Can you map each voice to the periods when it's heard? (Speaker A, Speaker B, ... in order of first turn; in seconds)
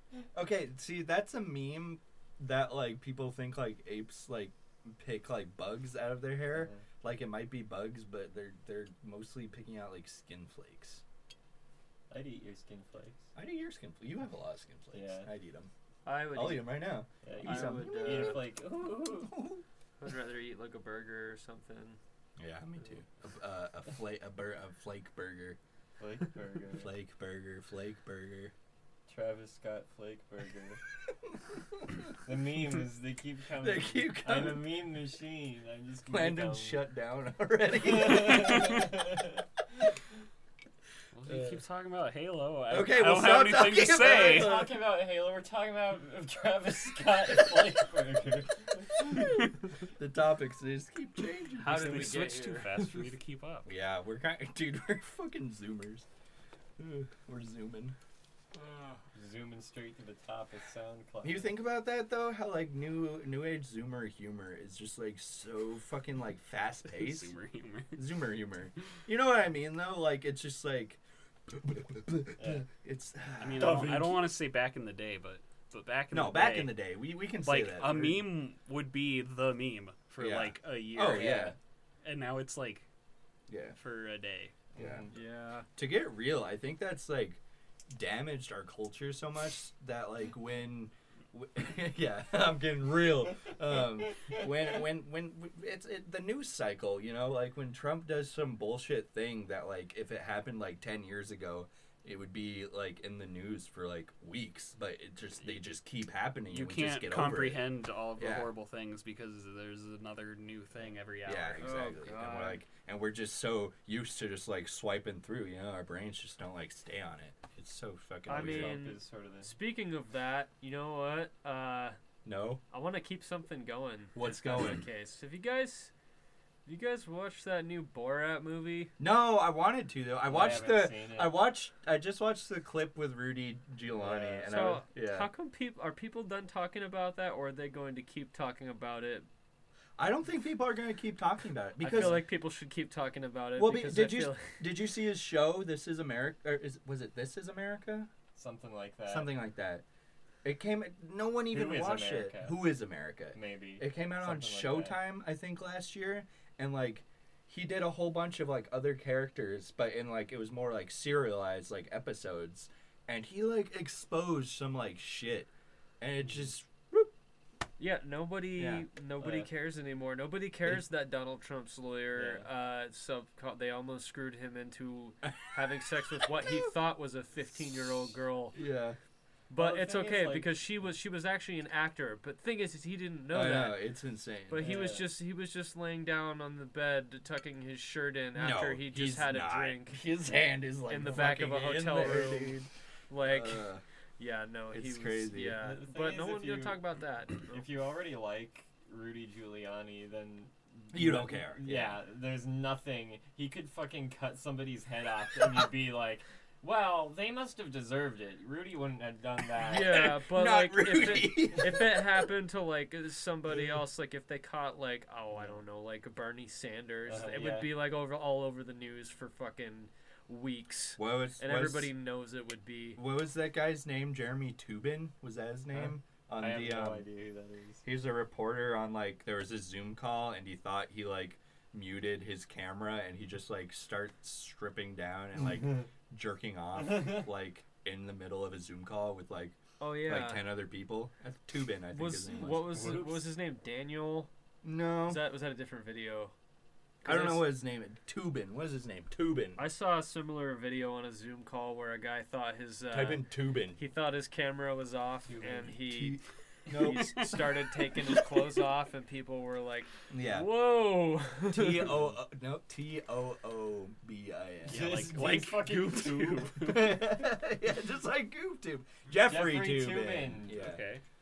Speaker A: 0.3-11.0, 13.3-15.7, 16.3-18.5, 19.2-19.6, 22.4-25.6, 26.8-28.5, 33.6-34.7, 36.1-38.9, 41.3-41.5, 42.7-44.7, 50.0-52.3, 53.6-56.0, 56.8-58.0, 61.2-67.3, 68.0-74.1, 76.1-78.2, 80.2-81.5, 83.5-83.8, 84.8-85.0, 85.8-107.6, 108.2-108.5, 111.2-118.8, 122.2-122.6, 124.1-124.8, 129.0-135.3, 140.0-142.2, 143.6-148.1, 149.1-149.8, 150.4-167.1, 168.6-168.8, 178.5-179.0, 183.3-184.8, 188.3-192.7, 193.2-193.8, 194.7-195.6, 200.9-202.0, 209.6-212.2, 221.0-221.9, 222.9-227.1, 227.8-243.2, 244.6-245.2, 247.0-249.7, 252.9-253.8, 255.4-257.2, 260.1-260.5, 261.5-270.8
Speaker B: 6.5-6.8, 12.1-13.3, 14.9-15.3, 17.2-19.4, 26.0-26.9, 29.1-30.8, 32.2-36.8, 37.8-39.4, 44.0-49.2, 59.1-61.5, 72.4-72.6, 73.6-74.0, 81.1-81.5, 84.7-85.2, 118.3-119.5, 130.2-131.4, 133.8-134.8, 141.9-142.2, 148.3-149.3, 151.5-152.7, 153.3-155.0, 169.2-169.5, 172.1-172.5, 179.5-180.6, 184.6-185.1, 195.6-196.8, 197.5-210.1, 215.3-215.6, 217.1-217.7, 225.7-227.8, 236.9-237.2, 255.3-255.7, 264.7-266.7, 269.2-270.7
Speaker C: 16.0-16.9, 17.4-18.4, 20.0-22.0, 51.6-52.9, 85.1-85.7, 111.6-112.6, 118.3-122.0, 122.7-125.9, 126.7-128.9, 134.5-139.3, 141.8-144.6, 167.8-178.6, 179.5-183.8, 184.5-190.0, 190.9-192.6, 193.1-193.6, 194.2-197.6, 209.7-223.0, 239.8-240.4, 241.9-244.3, 245.0-246.3, 247.0-247.4, 249.6-253.2, 253.8-261.9
Speaker D: 41.2-44.5, 51.7-53.7, 66.9-68.0, 73.4-76.8, 77.4-81.5, 82.0-82.8, 83.8-84.5, 106.5-111.7, 256.8-257.6, 264.7-267.0, 270.5-271.0